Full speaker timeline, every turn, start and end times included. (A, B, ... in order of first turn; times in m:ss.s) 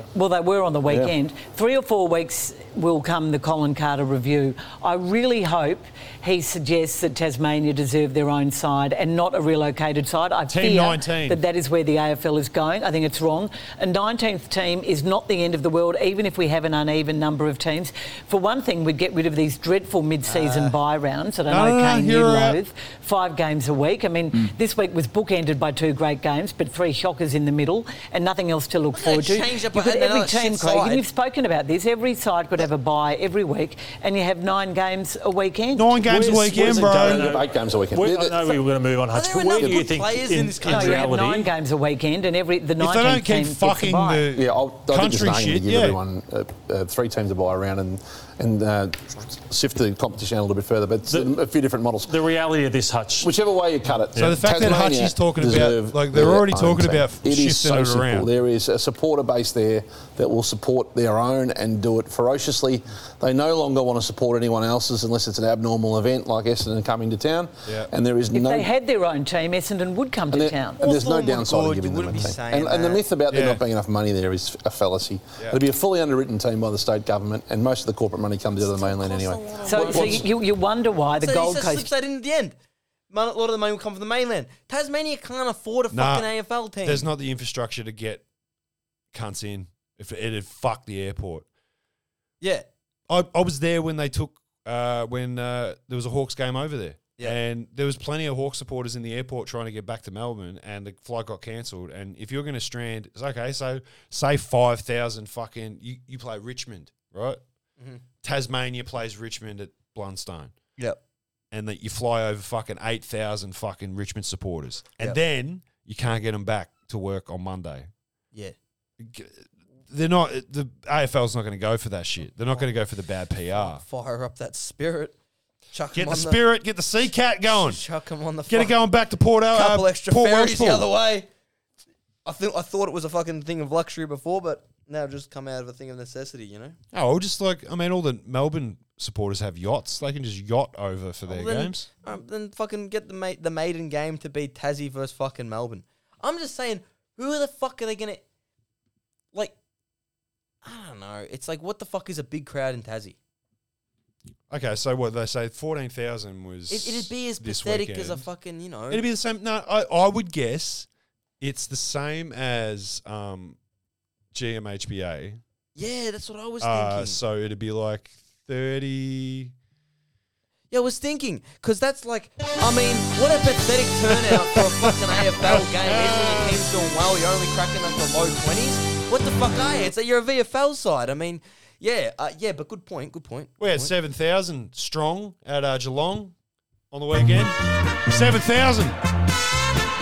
0:00.1-0:36.0 A
0:00.9-0:01.1 B
0:10.5-0:11.4 C
0:20.2-0:20.8 D
0:21.5-0:22.6 C
0:29.0-0:31.0 D
0:35.7-0:37.3 C
0:36.0-0:41.5 E
0:36.9-0:38.5 B
0:39.1-0:41.2 D
0:40.6-0:44.3 A
0:42.8-0:46.0 C
0:44.3-0:52.1 B
0:51.1-0:51.4 E
0:52.0-0:53.4 E
0:53.2-1:08.7 B
0:54.2-0:54.6 E
0:54.2-0:58.3 C
1:07.7-1:07.9 C
1:08.3-1:10.8 A
1:10.3-1:20.2 B
1:10.8-1:13.0 D
1:13.3-1:13.6 C
1:18.6-1:20.3 D
1:19.7-1:21.9 A
1:21.2-1:22.6 D
1:23.1-1:27.1 D
1:25.9-1:26.3 C
1:26.8-1:28.2 C
1:29.1-1:31.5 C
1:32.4-1:32.7 D
1:33.1-1:47.4 C
1:48.2-1:50.5 C
1:51.5-1:57.9 C
1:59.0-2:03.8 C
2:03.5-2:05.2 D
2:05.7-2:06.4 D
2:05.9-2:07.8 C
2:07.5-2:08.8 D
2:08.5-2:10.9 C
2:09.5-2:11.3 D
2:12.2-2:16.8 D
2:16.9-2:21.9 C
2:21.3-2:28.2 D
2:30.6-2:33.2 D
2:34.5-2:38.3 C
2:36.7-2:39.0 D
2:38.9-2:40.9 C
2:41.4-2:43.6 C
2:44.3-2:45.4 C
2:45.8-2:47.2 D
2:46.6-2:49.5 C
2:50.7-3:03.9 D
2:54.3-2:56.6 C
3:03.6-3:06.3 C
3:06.9-3:07.6 C
3:08.1-3:09.0 C